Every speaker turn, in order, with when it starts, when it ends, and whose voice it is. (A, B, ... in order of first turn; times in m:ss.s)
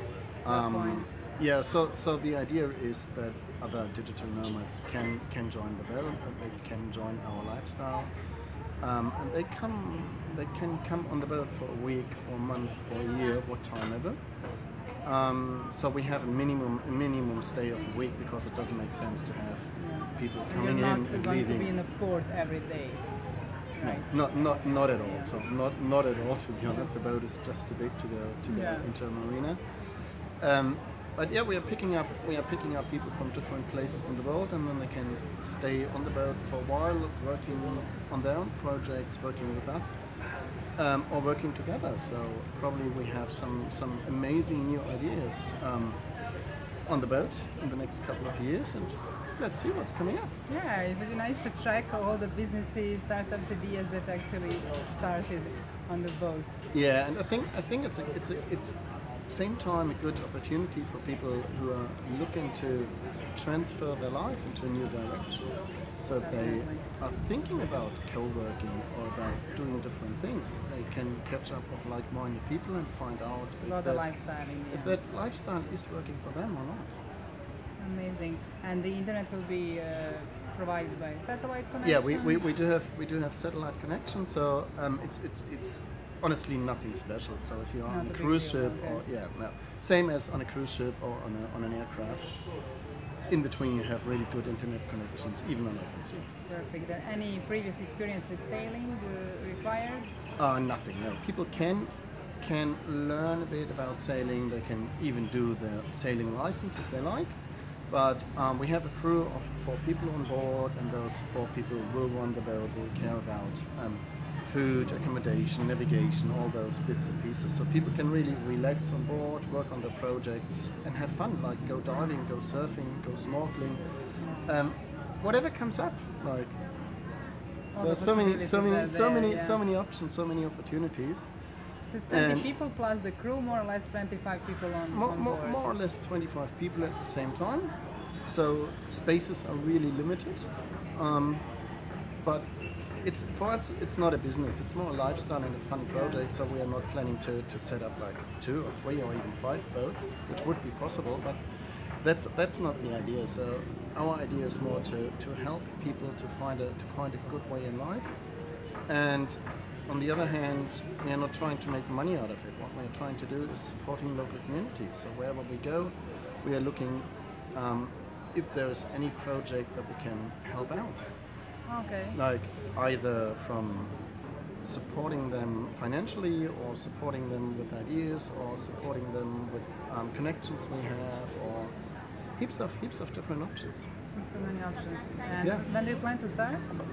0:00.4-0:08.1 A
0:00.5-0:01.1 B
0:08.8-0:14.2 A
0:15.0-0:21.7 A
0:19.8-0:23.0 B
0:23.7-0:25.3 B
0:23.8-0:29.6 A
0:28.5-0:28.9 B
0:30.4-0:39.9 A
0:40.8-0:46.0 A
0:46.9-0:50.3 A
0:50.5-0:56.5 B
0:56.7-1:05.5 A
1:06.0-1:14.0 A
1:06.2-1:06.8 B
1:13.6-1:15.0 B
1:14.7-1:17.0 A
1:17.8-1:22.5 B
1:21.8-1:32.3 A
1:27.9-1:29.0 B
1:33.3-1:36.2 A
1:36.5-1:40.1 B
1:40.4-1:41.9 A
1:42.4-1:47.4 A
1:47.9-2:03.8 A
2:04.2-2:04.5 B
2:04.4-2:06.6 A
2:07.7-2:09.6 B
2:07.8-2:11.3 A
2:11.9-2:15.6 B
2:12.1-2:12.5 A
2:14.9-2:17.7 A
2:18.2-2:21.4 A
2:23.0-2:31.4 A
2:25.9-2:26.2 B
2:32.0-2:38.1 A
2:38.9-2:39.4 A
2:39.9-2:51.0 A
2:51.7-2:52.2 B
2:52.1-2:54.0 A
2:54.6-3:01.7 A
3:02.4-3:03.9 A
3:04.1-3:06.6 B